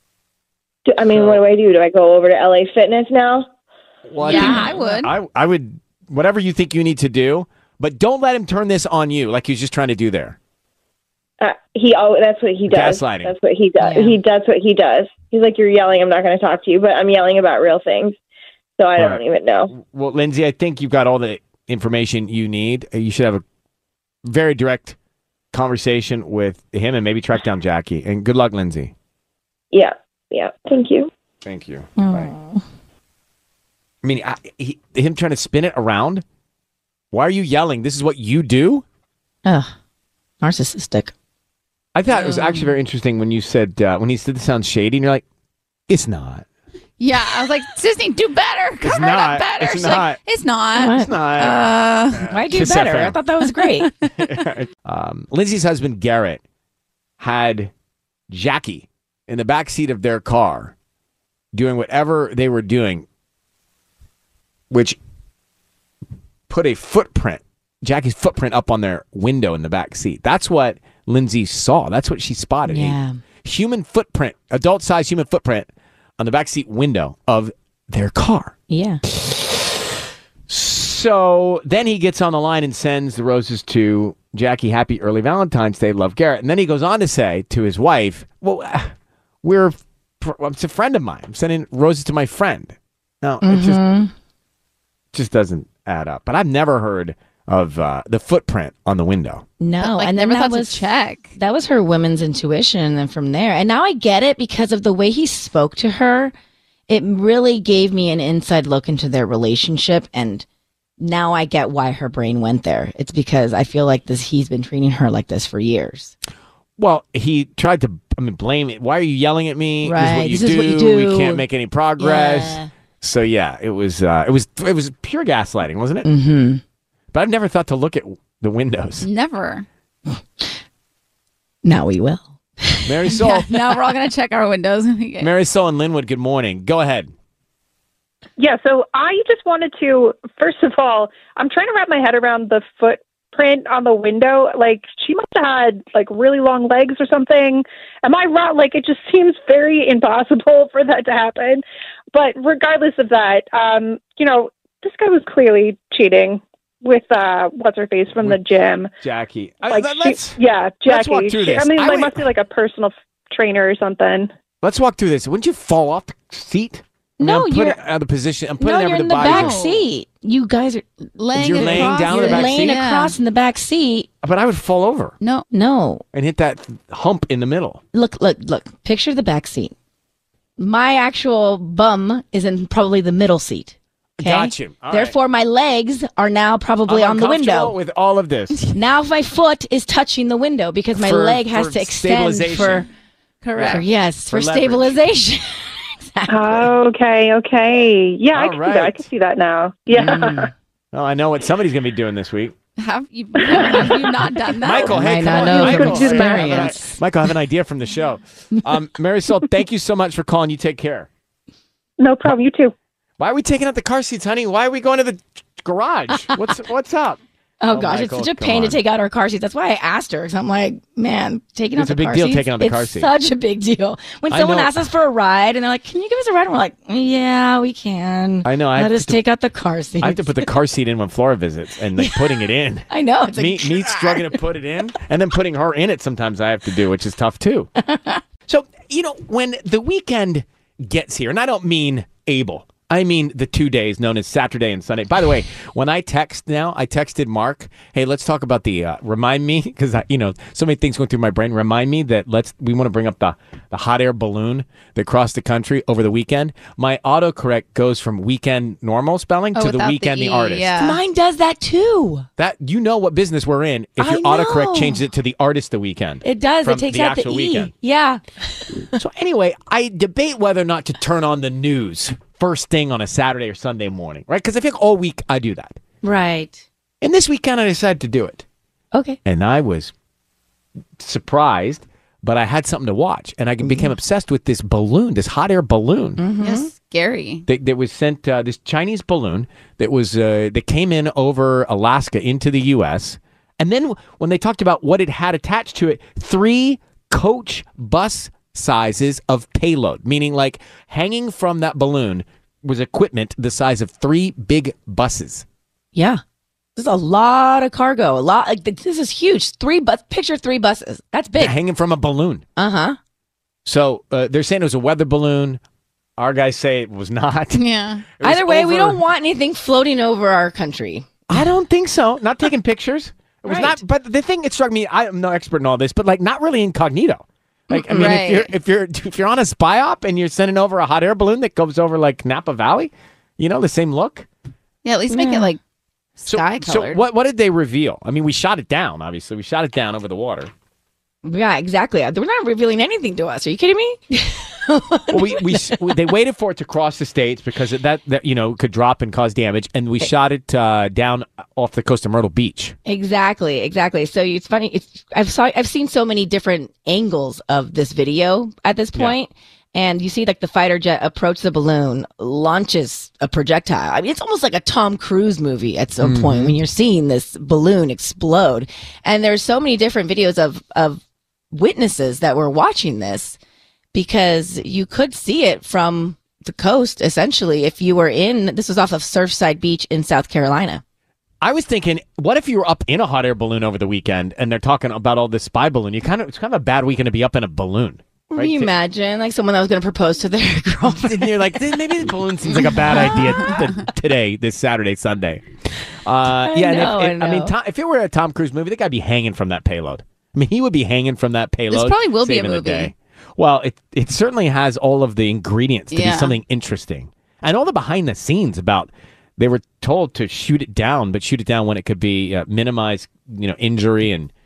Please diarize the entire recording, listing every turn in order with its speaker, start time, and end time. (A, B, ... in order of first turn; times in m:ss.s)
0:00.9-0:03.5 A
0:01.1-0:01.4 B
0:04.1-0:10.4 B
0:04.2-0:05.1 C
0:04.3-0:04.7 D
0:11.4-0:18.2 A
0:12.7-0:13.3 B
0:13.8-0:14.2 D
0:18.8-0:19.7 A
0:19.7-0:23.4 B
0:24.2-0:25.0 B
0:25.5-0:28.9 B
0:29.7-0:31.1 A
0:31.4-0:32.3 B
0:32.0-0:32.6 D
0:34.0-0:36.2 B
0:37.1-0:38.8 B
0:39.4-0:39.7 D
0:40.4-0:41.1 D
0:41.9-0:45.2 B
0:42.1-0:42.7 D
0:45.9-0:46.4 B
0:47.0-0:52.2 C
0:48.8-0:50.2 B
0:50.8-0:51.1 D
0:50.9-0:51.6 B
0:52.1-0:53.2 B
0:52.2-0:53.9 D
0:54.1-0:56.4 B
0:57.2-0:57.7 B
0:58.3-1:00.7 B
1:01.5-1:03.0 B
1:04.7-1:05.0 B
1:06.5-1:18.5 B
1:12.6-1:13.2 D
1:18.7-1:19.0 D
1:19.2-1:19.6 B
1:20.5-1:28.9 B
1:29.4-1:33.8 B
1:33.4-1:34.1 D
1:35.1-1:39.4 B
1:39.6-1:40.8 D
1:39.8-1:41.3 C
1:41.3-1:46.3 D
1:46.9-1:50.4 D
1:51.0-1:56.1 D
1:56.8-2:06.1 B
1:59.8-2:01.4 D
2:02.0-2:02.7 D
2:06.0-2:06.6 D
2:07.1-2:09.0 B
2:09.0-2:09.6 C
2:11.6-2:13.3 D
2:12.8-2:13.4 B
2:13.1-2:15.3 C
2:15.2-2:17.1 B
2:18.4-2:38.9 E
2:38.1-2:38.4 B
2:39.0-2:42.3 B
2:39.7-2:44.3 E
2:44.6-2:49.6 B
2:47.2-2:47.8 D
2:48.6-2:54.1 D
2:49.2-2:49.8 C
2:51.2-2:53.1 C
2:51.3-2:52.8 B
2:54.2-2:55.2 B
2:55.5-2:56.0 D
2:56.1-2:57.8 B
2:57.9-2:59.7 D
3:00.6-3:07.7 D
3:04.2-3:05.1 B
3:06.9-3:08.6 B
3:08.7-3:12.9 D
3:10.9-3:12.9 B
3:13.4-3:13.8 C
3:13.5-3:15.0 B
3:13.6-3:16.6 D
3:16.3-3:20.5 E
3:18.3-3:19.1 B
3:19.9-3:20.5 D
3:20.9-3:22.5 B
3:22.8-3:26.3 C
3:23.6-3:23.9 D
3:24.6-3:31.1 B
3:24.8-3:27.0 D
3:32.0-3:32.7 E
3:33.2-3:37.2 B
3:37.6-3:50.5 D
3:37.7-3:38.8 B
3:41.8-3:43.1 B
3:44.3-3:44.7 B
3:48.4-3:49.2 B
3:50.0-3:57.7 B
3:52.0-3:54.4 D
3:57.8-3:58.2 D
3:58.5-4:20.7 B
4:19.6-4:21.0 C
4:20.8-4:22.3 D
4:22.4-4:27.7 B
4:24.0-4:25.0 D
4:26.2-4:28.8 D
4:28.9-4:35.8 B
4:36.0-4:36.6 D
4:37.0-4:38.4 B
4:38.9-4:39.2 D
4:39.2-4:39.9 B
4:41.0-4:46.2 B
4:43.6-4:44.0 D
4:46.2-4:46.7 D
4:46.4-4:47.4 C
4:47.5-5:05.4 B
5:05.9-5:06.2 D
5:06.8-5:11.5 D
5:11.4-5:12.4 B
5:12.6-5:13.0 D
5:13.6-5:15.6 B
5:16.2-5:17.6 B
5:17.5-5:18.0 C
5:18.2-5:19.0 B
5:18.2-5:21.4 D
5:21.3-5:34.2 B
5:23.4-5:23.8 D
5:27.7-5:28.2 D
5:27.9-5:28.5 C
5:34.8-5:35.6 C
5:35.1-5:35.5 D
5:36.2-5:37.0 C
5:36.2-5:40.5 B
5:41.2-5:45.9 D
5:45.1-5:52.8 B
5:52.8-6:11.0 D
6:06.0-6:06.6 B
6:11.5-6:13.4 D
6:13.9-6:20.8 D
6:21.4-6:28.7 B
6:28.3-6:31.6 D
6:31.0-6:35.4 B
6:32.9-6:33.5 D
6:36.0-6:54.3 B
6:36.4-6:37.5 D
6:41.7-6:42.9 C
6:45.9-6:46.4 C